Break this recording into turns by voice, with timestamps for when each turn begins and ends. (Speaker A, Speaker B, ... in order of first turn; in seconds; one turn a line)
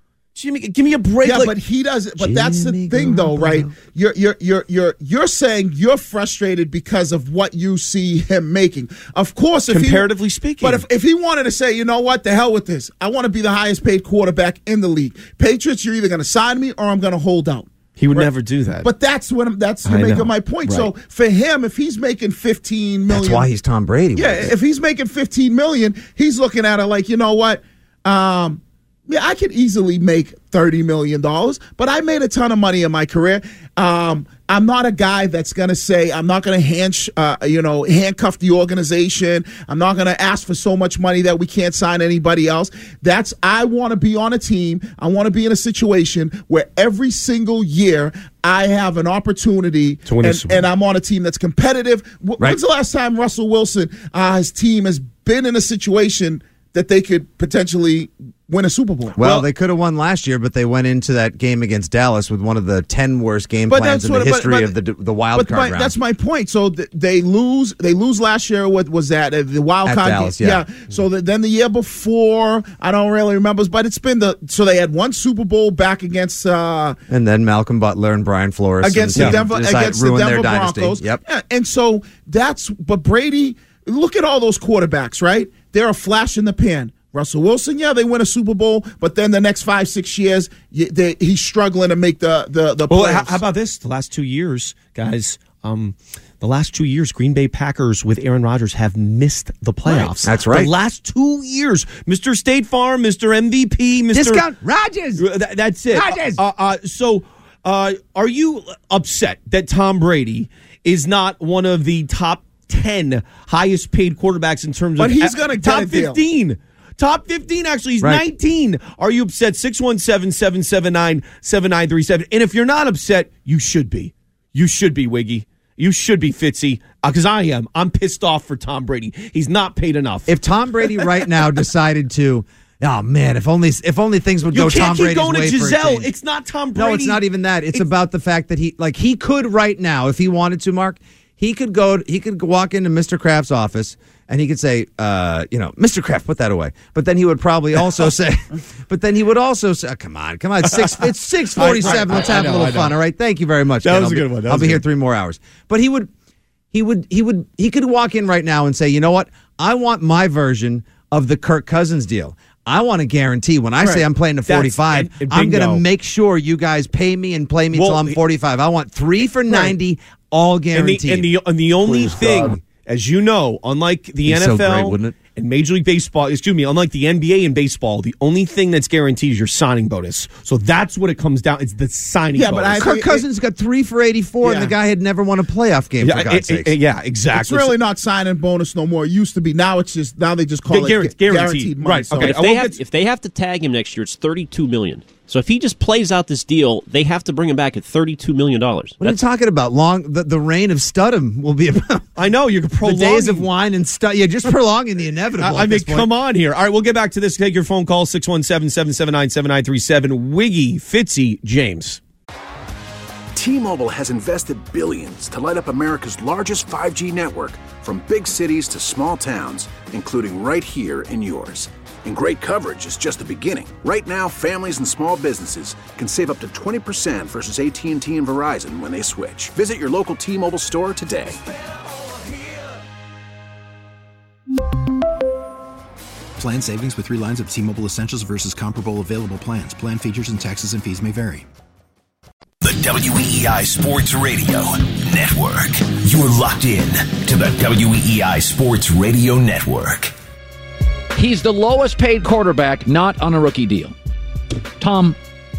Speaker A: 0.3-1.6
Speaker B: 1.2-10.1
Speaker C: 2.2-3.8
Speaker A: 9.7-10.8
Speaker B: 10.6-18.3
Speaker A: 18.0-18.9
Speaker B: 18.8-23.5
Speaker A: 19.9-20.9
Speaker C: 23.1-24.5
Speaker B: 24.1-59.2
Speaker A: 50.1-50.7
Speaker C: 59.2-66.0
Speaker A: 59.2-59.5
Speaker B: 63.7-64.7
Speaker B: 65.3-77.0
Speaker C: 69.8-70.6
Speaker C: 77.1-81.2
Speaker B: 78.8-93.4
Speaker A: 92.9-104.5
Speaker C: 99.8-100.7
Speaker C: 104.1-105.2
Speaker A: 105.2-130.3
Speaker C: 105.9-106.4
Speaker B: 115.0-116.2
Speaker C: 130.3-136.1
Speaker A: 134.5-137.2
Speaker C: 136.8-156.1
Speaker A: 150.7-151.0
Speaker A: 151.6-153.0
Speaker A: 153.8-154.8
Speaker C: 156.7-171.3
Speaker A: 164.5-165.8
Speaker A: 167.7-168.2
Speaker A: 170.7-182.9
Speaker D: 171.9-172.4
Speaker D: 174.2-175.2
Speaker B: 182.3-183.2
Speaker C: 182.8-186.7
Speaker B: 184.4-184.7
Speaker A: 186.0-187.8
Speaker B: 187.3-192.4
Speaker A: 190.7-192.8
Speaker E: 192.2-199.2
Speaker C: 199.0-202.1
Speaker A: 202.2-203.5
Speaker C: 202.8-206.1
Speaker A: 205.4-212.0
Speaker F: 213.3-231.4
Speaker G: 236.4-241.4
Speaker H: 242.6-250.1
Speaker D: 251.1-253.9
Speaker D: 254.8-255.2